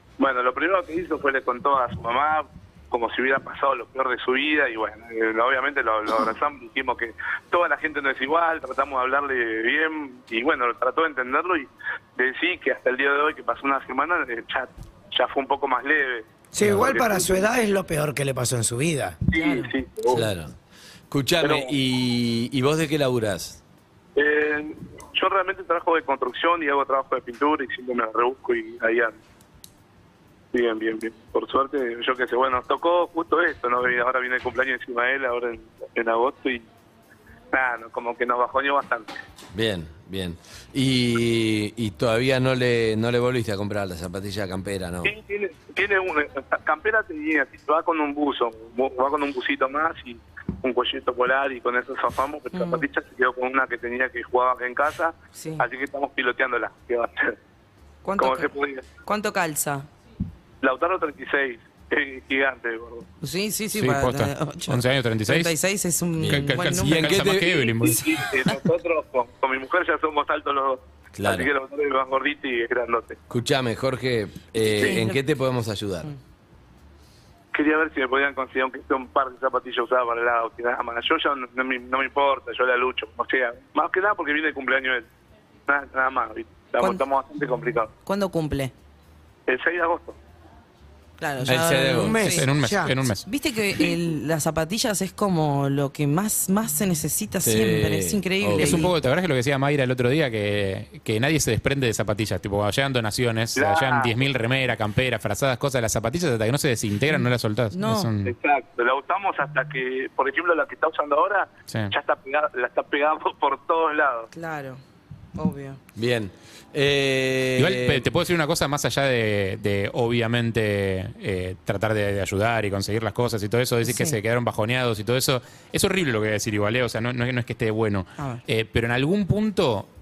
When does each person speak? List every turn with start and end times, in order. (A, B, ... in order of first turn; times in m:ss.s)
0:00.2-0:17.4 A
0:16.5-0:19.2 B
0:16.6-0:16.9 C
0:19.3-0:20.3 A
0:19.3-0:19.7 D
0:20.1-0:20.6 C
0:21.1-0:23.6 C
0:21.4-0:21.7 A
0:24.2-0:29.2 A
0:30.5-0:36.7 A
0:37.5-0:39.2 A
0:39.5-0:45.1 C
0:45.0-0:57.4 A
0:52.5-0:52.9 D
0:55.4-0:55.7 D
0:58.0-0:59.9 D
0:58.2-0:58.9 A
1:00.6-1:03.1 A
1:03.2-1:07.2 D
1:03.8-1:05.5 E
1:06.2-1:07.7 C
1:06.3-1:08.0 E
1:07.8-1:13.2 A
1:11.2-1:11.5 C
1:13.3-1:16.1 C
1:14.8-1:15.2 D
1:17.5-1:25.1 A
1:25.7-1:27.9 A
1:28.0-1:28.7 D
1:29.5-1:30.2 A
1:31.2-1:32.4 D
1:31.5-1:32.2 C
1:31.9-1:33.0 B
1:32.2-1:33.2 E
1:33.3-1:38.9 D
1:37.4-1:38.9 C
1:38.6-1:48.3 E
1:43.6-1:44.2 A
1:47.1-1:48.1 D
1:48.2-1:54.3 A
1:51.7-1:51.9 E
1:54.3-1:54.8 D
1:55.4-1:55.8 D
1:56.0-1:58.1 C
1:57.6-2:09.9 E
2:03.9-2:04.2 D